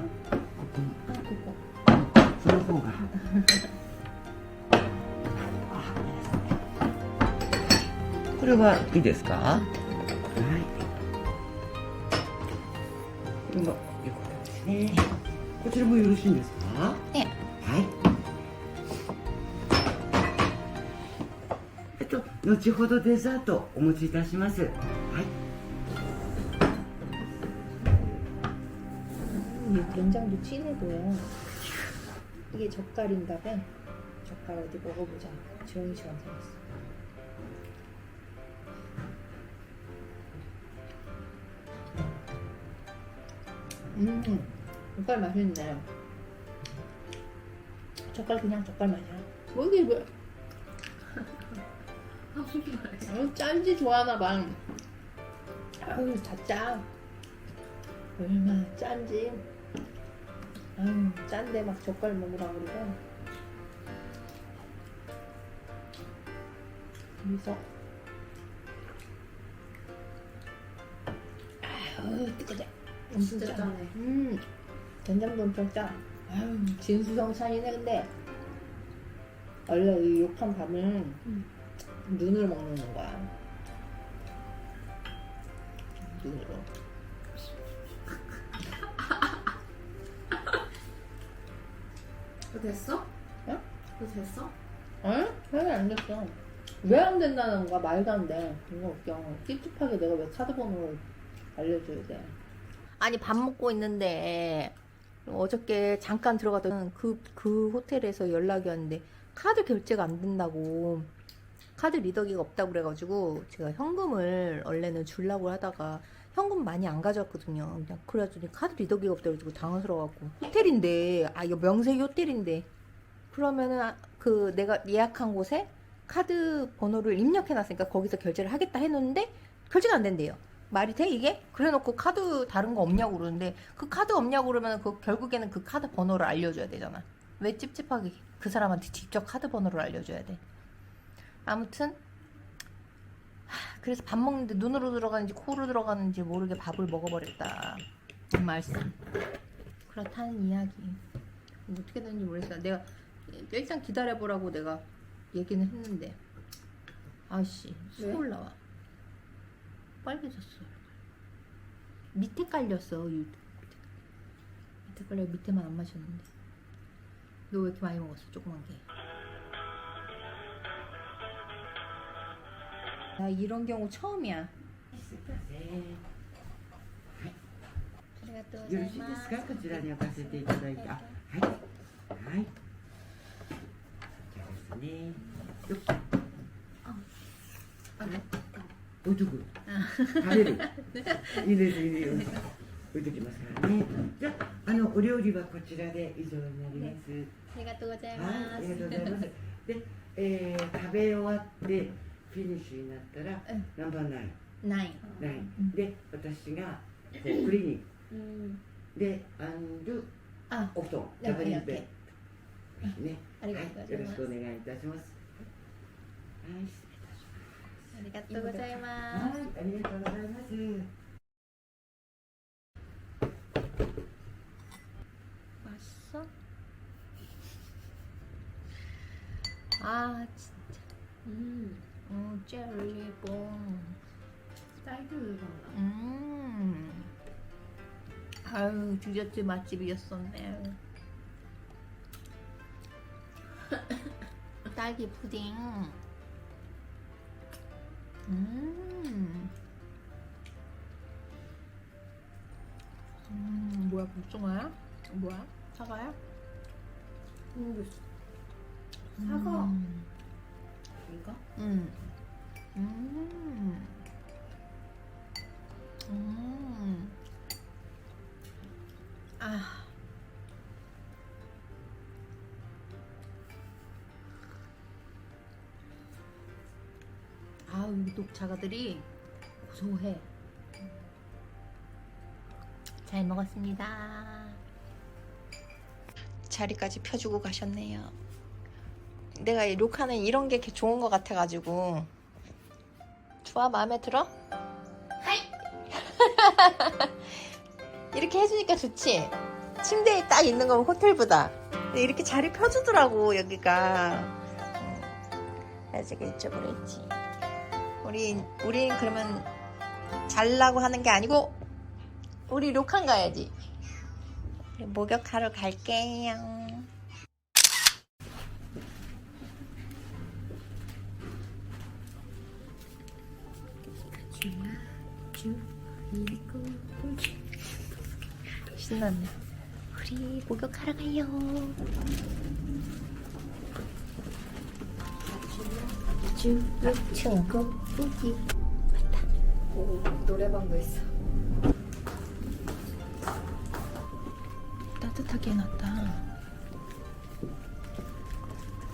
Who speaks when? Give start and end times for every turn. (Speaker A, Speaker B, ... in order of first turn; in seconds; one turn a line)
Speaker A: 0.6-1.0
Speaker B: 1.1-1.6
Speaker A: 1.9-3.1
Speaker A: 5.7-6.5
Speaker A: 8.3-9.7
Speaker A: 10.3-10.8
Speaker A: 13.5-15.1
Speaker A: 15.6-17.9
Speaker A: 21.9-25.3
Speaker B: 29.3-31.3
Speaker B: 32.5-33.7
Speaker B: 34.2-36.6
Speaker B: 43.9-45.9
Speaker B: 48.1-50.1
Speaker C: 52.3-53.1
Speaker B: 53.1-54.6
Speaker B: 55.8-56.9
Speaker B: 58.2-59.5
Speaker B: 60.8-63.0
Speaker B: 67.2-67.6
Speaker B: 71.6-74.4
Speaker C: 73.1-73.9
Speaker B: 75.0-78.1
Speaker B: 79.7-81.2
Speaker B: 82.0-83.3
Speaker B: 86.0-86.7
Speaker C: 92.5-93.1
Speaker C: 94.0-94.5
Speaker B: 95.0-102.3
Speaker B: 103.0-111.1
Speaker B: 111.8-122.7
Speaker B: 123.3-140.4
Speaker B: 141.4-142.0
Speaker B: 143.5-149.0
Speaker B: 149.9-151.0
Speaker B: 151.7-156.2
Speaker B: 157.3-158.6
Speaker C: 158.0-158.2
Speaker B: 160.0-160.8
Speaker B: 162.1-163.8
Speaker B: 164.9-166.3
Speaker B: 167.5-168.8
Speaker B: 173.2-174.5
Speaker A: 174.9-176.0
Speaker B: 178.2-181.1
Speaker A: 178.6-181.6
Speaker A: 182.1-182.5
Speaker A: 184.3-185.9
Speaker C: 188.0-188.7
Speaker A: 189.0-189.5
Speaker B: 189.7-191.4
Speaker A: 190.1-197.3
Speaker B: 197.5-199.2
Speaker A: 198.1-204.4
Speaker B: 204.6-205.1
Speaker C: 205.0-205.5
Speaker A: 205.2-207.8
Speaker C: 208.1-208.6
Speaker A: 208.9-210.1
Speaker B: 210.5-211.9
Speaker A: 210.7-211.9
Speaker A: 212.8-215.4
Speaker B: 213.4-214.3
Speaker A: 216.4-218.0
Speaker B: 217.9-219.3
Speaker C: 218.3-218.8
Speaker A: 219.1-220.9
Speaker B: 225.6-226.3
Speaker B: 229.8-230.8
Speaker C: 231.2-231.8
Speaker B: 232.1-234.0
Speaker C: 234.8-235.8
Speaker B: 235.7-237.1
Speaker B: 238.4-240.8
Speaker B: 244.7-246.0
Speaker B: 248.2-249.5
Speaker B: 253.3-256.2
Speaker C: 257.5-257.9
Speaker C: 259.1-259.7
Speaker B: 259.2-260.1
Speaker C: 261.1-261.4
Speaker B: 261.6-262.0
Speaker B: 262.7-264.0
Speaker B: 266.1-267.1
Speaker B: 269.4-269.9
Speaker B: 277.7-279.1
Speaker B: 279.6-280.3
Speaker B: 283.0-284.6
Speaker B: 286.5-288.1
Speaker B: 289.3-292.1
Speaker B: 293.4-294.3
Speaker B: 295.3-297.4
Speaker B: 298.1-305.1
Speaker B: 305.9-307.1
Speaker B: 308.0-309.5
Speaker B: 310.3-311.6
Speaker B: 312.5-313.5
Speaker B: 314.8-316.9
Speaker C: 324.2-327.4
Speaker B: 328.7-329.3
Speaker B: 329.9-331.8
Speaker C: 335.2-338.4
Speaker B: 336.8-337.6
Speaker B: 338.9-339.2
Speaker C: 339.7-341.1
Speaker B: 345.0-346.3